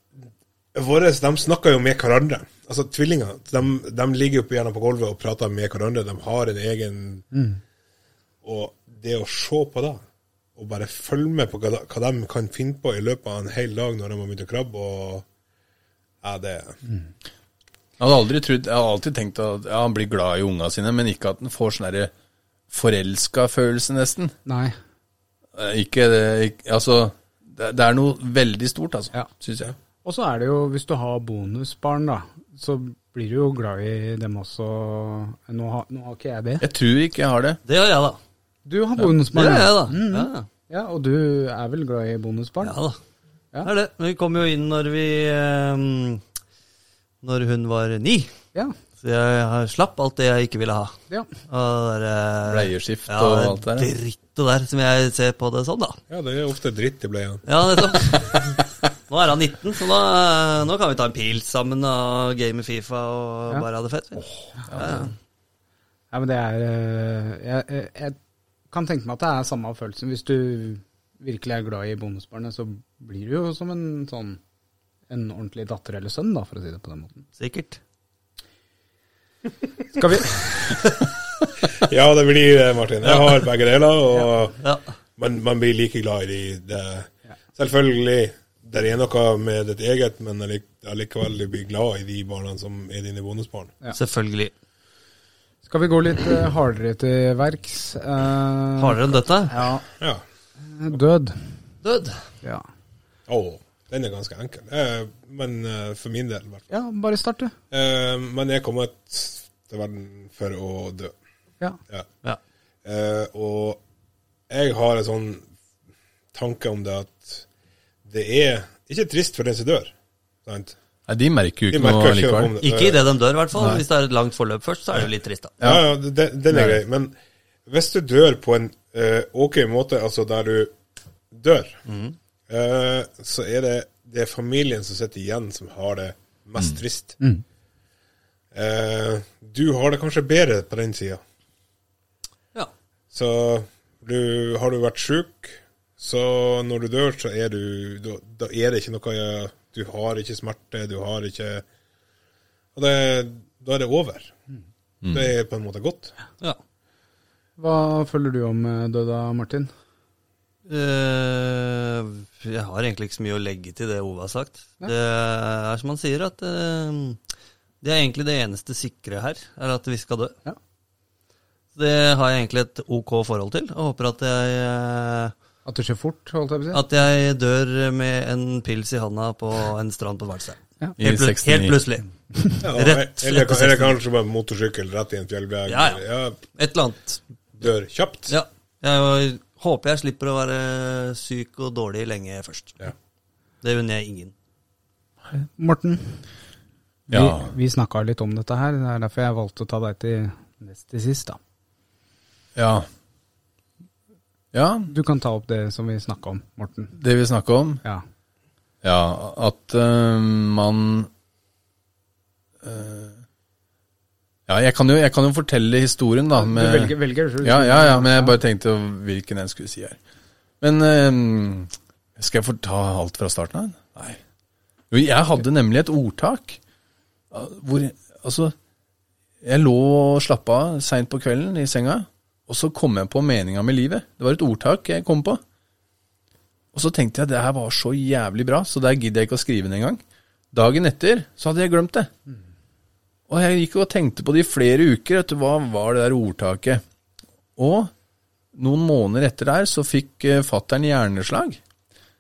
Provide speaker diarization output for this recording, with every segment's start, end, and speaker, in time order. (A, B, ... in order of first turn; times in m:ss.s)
0:00.7-0:07.3 A
0:07.3-0:07.6 B
0:08.4-0:10.0 A
0:10.6-0:15.2 A
0:16.2-0:16.8 A
0:18.0-0:22.1 C
0:22.7-0:24.3 C
0:24.4-0:24.7 B
0:25.5-0:29.7 C
0:30.0-0:36.6 B
0:36.6-0:37.6 C
0:37.6-0:38.2 D
0:38.6-0:42.8 B
0:39.3-0:40.5 D
0:42.6-0:43.0 D
0:43.6-0:46.2 D
0:47.2-0:48.3 D
0:49.0-0:51.0 D
0:51.5-0:56.0 D
0:52.4-0:53.9 C
0:56.1-0:57.4 A
0:57.4-1:05.1 D
1:04.7-1:05.1 C
1:06.1-1:08.2 B
1:08.7-1:14.4 B
1:15.1-1:17.2 B
1:17.4-1:17.8 D
1:19.9-1:20.8 B
1:21.7-1:24.6 A
1:23.0-1:23.4 D
1:25.2-1:33.7 A
1:33.9-1:34.5 D
1:35.6-1:39.8 B
1:38.8-1:39.6 D
1:40.7-1:41.4 B
1:41.8-1:42.2 D
1:43.3-1:46.6 A
1:46.7-1:47.5 B
1:47.7-1:51.1 A
1:52.8-1:53.8 A
1:54.5-1:55.5 A
1:56.3-1:57.4 A
1:58.0-1:59.9 A
2:00.4-2:00.7 A
2:01.1-2:02.6 C
2:01.7-2:03.0 A
2:02.6-2:05.5 D
2:03.6-2:03.8 C
2:05.6-2:05.9 C
2:05.6-2:07.1 A
2:06.5-2:06.8 C
2:07.7-2:10.7 A
2:11.3-2:11.8 A
2:11.9-2:12.2 D
2:12.5-2:17.2 A
2:18.5-2:21.2 A
2:23.1-2:31.6 A
2:32.7-2:34.3 A
2:35.0-2:35.3 C
2:35.1-2:36.1 A
2:37.6-2:39.7 B
2:40.6-2:47.2 D
2:47.8-2:50.4 D
2:51.7-2:55.3 D
2:55.6-2:56.8 B
2:56.7-3:02.0 D
3:01.0-3:01.8 C
3:02.6-3:06.4 A
3:02.7-3:04.0 D
3:05.7-3:06.0 D
3:06.5-3:07.2 D
3:07.6-3:08.3 A
3:08.3-3:12.9 D
3:13.6-3:14.3 D
3:15.3-3:16.2 B
3:17.1-3:17.5 C
3:17.1-3:21.4 B
3:22.6-3:22.9 C
3:24.5-3:24.9 C
3:24.9-3:26.9 B
3:26.9-3:27.8 C
3:28.8-3:31.1 C
3:32.6-3:33.2 C
3:34.5-3:40.0 C
3:36.3-3:38.4 B
3:40.6-3:44.2 C
3:44.9-3:46.6 C
3:47.3-3:48.6 C
3:49.4-3:55.4 C
3:56.7-4:02.1 C
4:03.3-4:06.8 C
4:07.6-4:07.9 C
4:08.5-4:11.6 C